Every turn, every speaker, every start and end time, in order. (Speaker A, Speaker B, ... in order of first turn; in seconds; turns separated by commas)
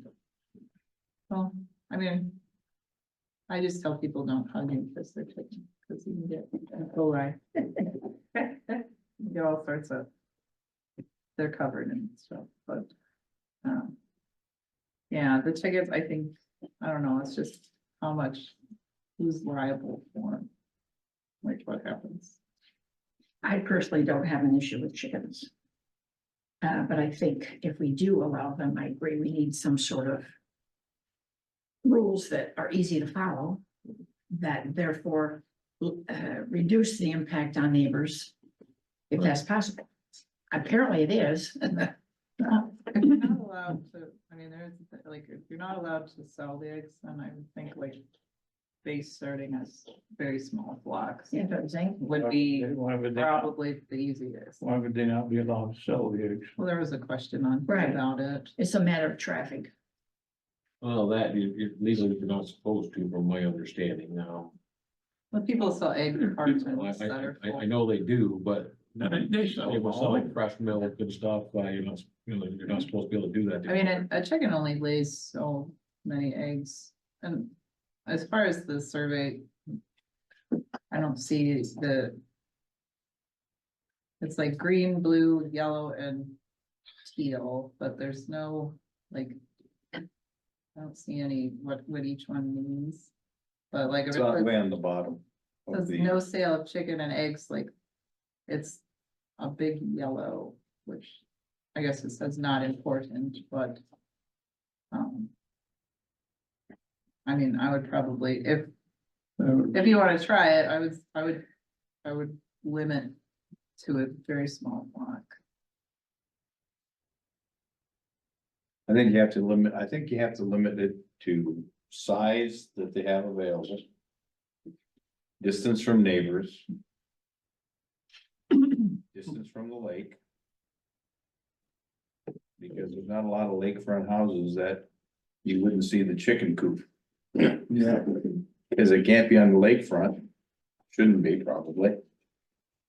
Speaker A: 1.3-2.4, Speaker A: 3.5-10.1, Speaker A: 11.3-12.9, Speaker A: 13.6-14.0, Speaker A: 15.1-18.6, Speaker A: 19.2-20.5, Speaker A: 21.4-22.4, Speaker B: 23.4-25.5, Speaker B: 26.6-30.3, Speaker B: 31.8-33.6, Speaker B: 34.3-38.3, Speaker B: 39.1-39.9, Speaker B: 40.5-41.9, Speaker A: 42.4-48.0, Speaker A: 48.8-51.4, Speaker B: 51.3-52.1, Speaker A: 52.0-54.6, Speaker C: 52.2-53.5, Speaker C: 54.6-56.5, Speaker A: 56.6-58.5, Speaker B: 57.7-58.0, Speaker B: 58.5-59.7, Speaker D: 60.8-64.5, Speaker A: 65.3-67.6, Speaker D: 66.6-74.0, Speaker C: 69.0-70.3, Speaker A: 73.7-77.5, Speaker A: 78.0-79.5, Speaker A: 80.9-82.2, Speaker A: 84.2-86.4, Speaker A: 87.0-89.3, Speaker A: 90.7-93.1, Speaker A: 93.7-94.5, Speaker E: 94.1-96.2, Speaker A: 95.7-97.7, Speaker A: 98.5-98.8, Speaker A: 99.4-101.2, Speaker A: 101.7-103.8, Speaker A: 104.9-105.3, Speaker A: 107.2-108.7, Speaker C: 109.4-109.7, Speaker A: 109.7-111.5, Speaker A: 112.0-113.2, Speaker A: 113.8-115.3, Speaker E: 118.9-123.8, Speaker E: 125.4-126.7, Speaker E: 129.1-130.2, Speaker E: 132.6-134.9, Speaker E: 135.4-136.8, Speaker E: 137.4-140.3, Speaker E: 140.9-142.0